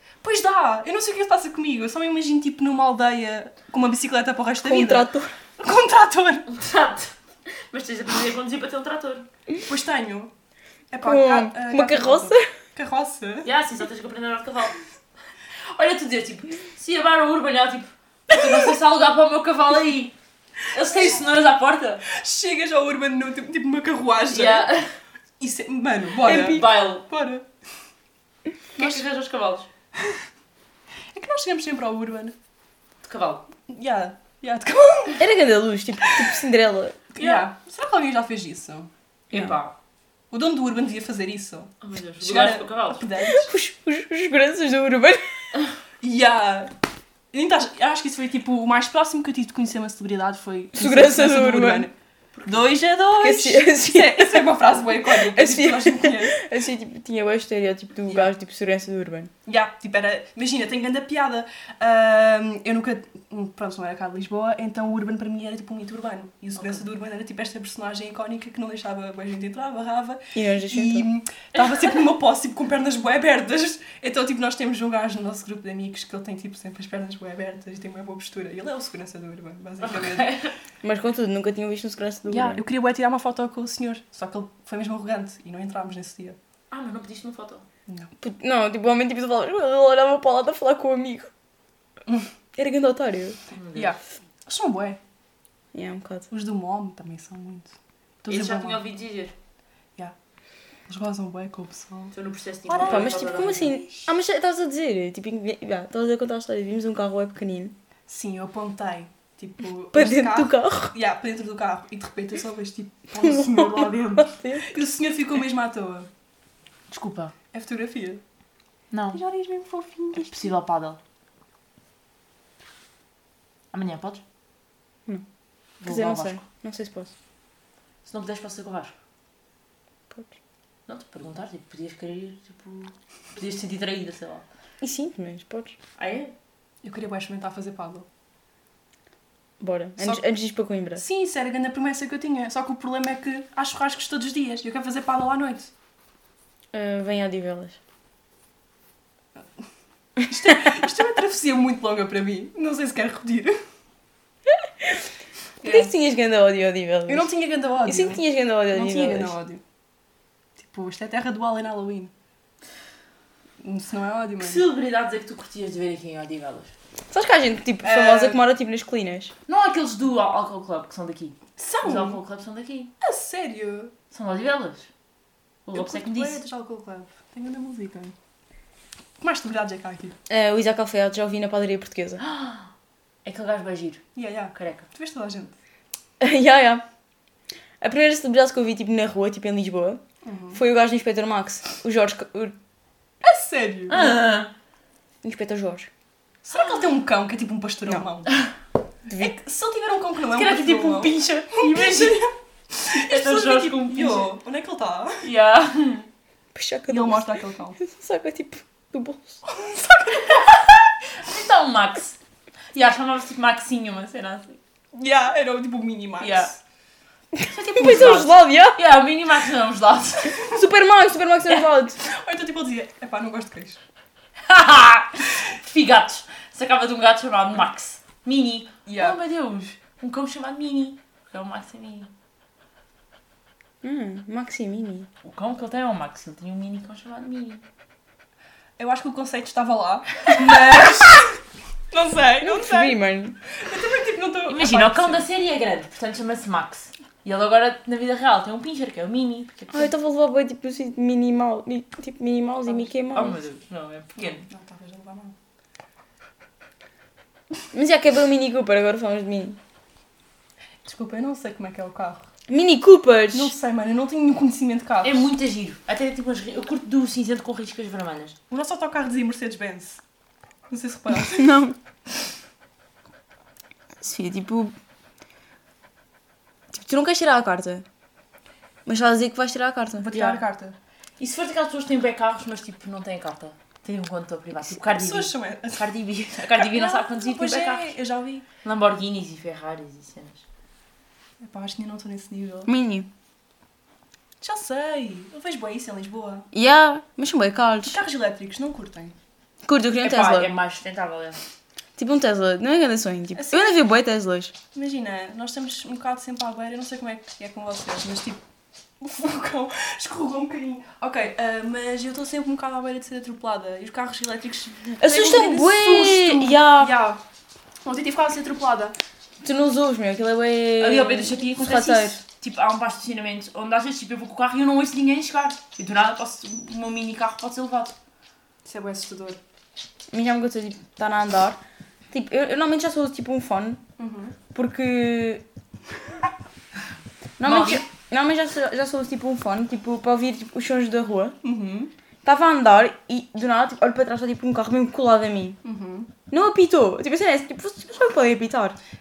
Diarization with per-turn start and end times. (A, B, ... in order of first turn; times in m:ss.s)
0:00.2-0:06.4 A
0:04.6-0:05.3 B
0:06.5-0:09.2 C
0:09.6-0:10.3 A
0:10.9-0:13.5 A
0:11.0-0:12.5 B
0:13.4-0:14.8 C
0:15.7-0:20.1 C
0:20.7-0:22.0 C
0:22.1-0:24.7 A
0:24.3-0:24.9 C
0:25.4-0:27.5 A
0:26.2-0:27.0 C
0:26.2-0:26.6 B
0:28.8-0:29.7 C
0:28.8-0:29.0 A
0:31.1-0:32.4 A
0:33.0-0:33.5 C
0:33.7-0:35.2 A
0:35.2-0:37.0 B
0:37.2-0:37.4 C
0:37.2-0:38.9 A
0:39.3-0:39.7 C
0:40.3-0:43.5 A
0:41.8-0:43.1 C
0:43.3-0:45.2 B
0:46.0-0:46.7 A
0:47.3-0:51.9 A
0:50.8-0:51.9 B
0:52.4-0:52.6 C
0:52.4-0:56.4 A
0:53.2-0:54.5 B
0:55.1-0:59.3 B
0:59.4-1:20.4 A
1:06.6-1:06.8 C
1:10.4-1:11.1 B
1:19.8-1:20.5 C
1:20.8-1:22.6 B
1:22.3-1:26.4 A
1:26.7-1:27.6 C
1:28.2-1:31.3 B
1:32.6-1:33.4 B
1:33.5-1:33.9 C
1:33.7-1:35.0 A
1:35.7-1:36.3 B
1:36.3-1:38.8 A
1:38.3-1:39.3 C
1:40.9-1:42.1 A
1:42.1-1:43.9 C
1:42.7-1:43.8 A
1:42.8-1:47.7 B
1:48.1-1:56.1 A
1:49.9-1:50.9 B
1:53.2-1:54.8 B
1:56.9-1:57.3 C
1:57.5-1:58.2 A
1:58.9-1:59.2 C
1:59.1-2:00.5 A
2:00.1-2:01.0 C
2:03.7-2:04.2 C
2:05.8-2:06.4 C
2:05.8-2:07.1 B
2:08.0-2:09.0 C
2:10.9-2:14.4 C
2:14.8-2:15.7 B
2:16.0-2:16.3 C
2:16.8-2:18.1 A
2:19.6-2:21.0 B
2:21.0-2:25.7 A
2:26.7-2:27.8 B
2:30.2-2:33.6 A
2:35.6-2:35.9 A
2:35.6-2:37.3 B
2:37.1-2:39.6 A
2:37.8-2:39.3 B
2:40.6-2:42.1 A
2:43.6-2:44.6 A
2:44.4-2:46.7 C
2:47.1-2:49.3 B
2:47.8-2:48.4 A
2:49.5-2:52.9 C
2:51.6-2:52.2 A
2:53.0-2:53.9 A
2:54.1-2:54.9 C
2:55.6-2:56.4 C
2:55.7-2:58.1 A
2:59.2-3:00.1 A
3:00.3-3:02.2 B
3:02.2-3:02.7 C
3:03.2-3:04.9 C
3:04.2-3:05.6 A
3:06.2-3:06.8 B
3:07.8-3:10.0 B
3:10.2-3:10.6 A
3:10.5-3:12.6 B
3:13.2-3:14.2 A
3:13.9-3:14.5 C
3:15.2-3:15.9 B
3:16.4-3:18.3 A
3:19.1-3:19.3 B
3:19.2-3:25.3 A
3:20.3-3:22.3 C
3:22.8-3:24.3 C
3:25.2-3:26.1 C
3:26.6-3:29.4 B
3:26.9-3:27.8 A
3:29.4-3:30.4 A
3:30.2-3:32.2 C
3:32.7-3:34.6 C
3:34.9-3:36.6 A
3:36.2-3:36.5 C
3:37.4-3:38.8 B
3:37.5-3:40.6 C
3:40.5-3:42.0 B
3:42.0-3:43.8 A
3:44.4-3:52.1 C
3:48.9-3:49.2 A
3:53.8-3:55.1 B
3:55.2-3:57.6 C
3:58.8-4:01.3 A
4:01.9-4:05.3 A
4:02.4-4:03.4 B
4:04.5-4:09.9 C
4:09.7-4:13.4 B
4:13.1-4:14.4 C
4:14.2-4:15.4 A
4:17.7-4:19.6 B
4:20.8-4:22.2 A
4:22.5-4:23.5 B
4:23.3-4:25.3 A
4:25.0-4:28.4 C
4:28.5-4:30.0 A
4:30.7-4:31.5 A
4:31.1-4:31.8 B
4:34.0-4:34.7 B
4:36.7-4:37.8 B
4:38.9-4:40.4 B
4:40.0-4:40.8 A
4:41.2-4:47.9 C
4:44.8-4:45.8 A
4:46.5-4:48.4 A
4:48.6-4:50.4 C
4:51.4-4:52.7 A
4:52.7-4:53.1 B
4:54.4-4:56.5 A
4:56.5-4:58.0 B
4:57.8-4:59.2 A
4:59.6-5:00.5 B
5:00.0-5:01.4 C
5:02.0-5:04.5 B
5:03.4-5:03.8 A
5:04.7-5:08.4 A
5:09.0-5:17.2 A
5:15.0-5:16.9 B
5:17.8-5:19.0 A
5:19.4-5:22.2 B
5:20.8-5:27.9 C
5:28.6-5:29.4 A
5:30.1-5:31.6 B
5:32.1-5:33.8 B
5:34.0-5:34.4 A
5:34.5-5:35.4 B
5:37.4-5:41.4 B
5:37.4-5:37.8 C
5:41.4-5:41.9 A
5:42.2-5:45.6 B
5:45.6-5:46.1 A
5:46.3-5:48.8 B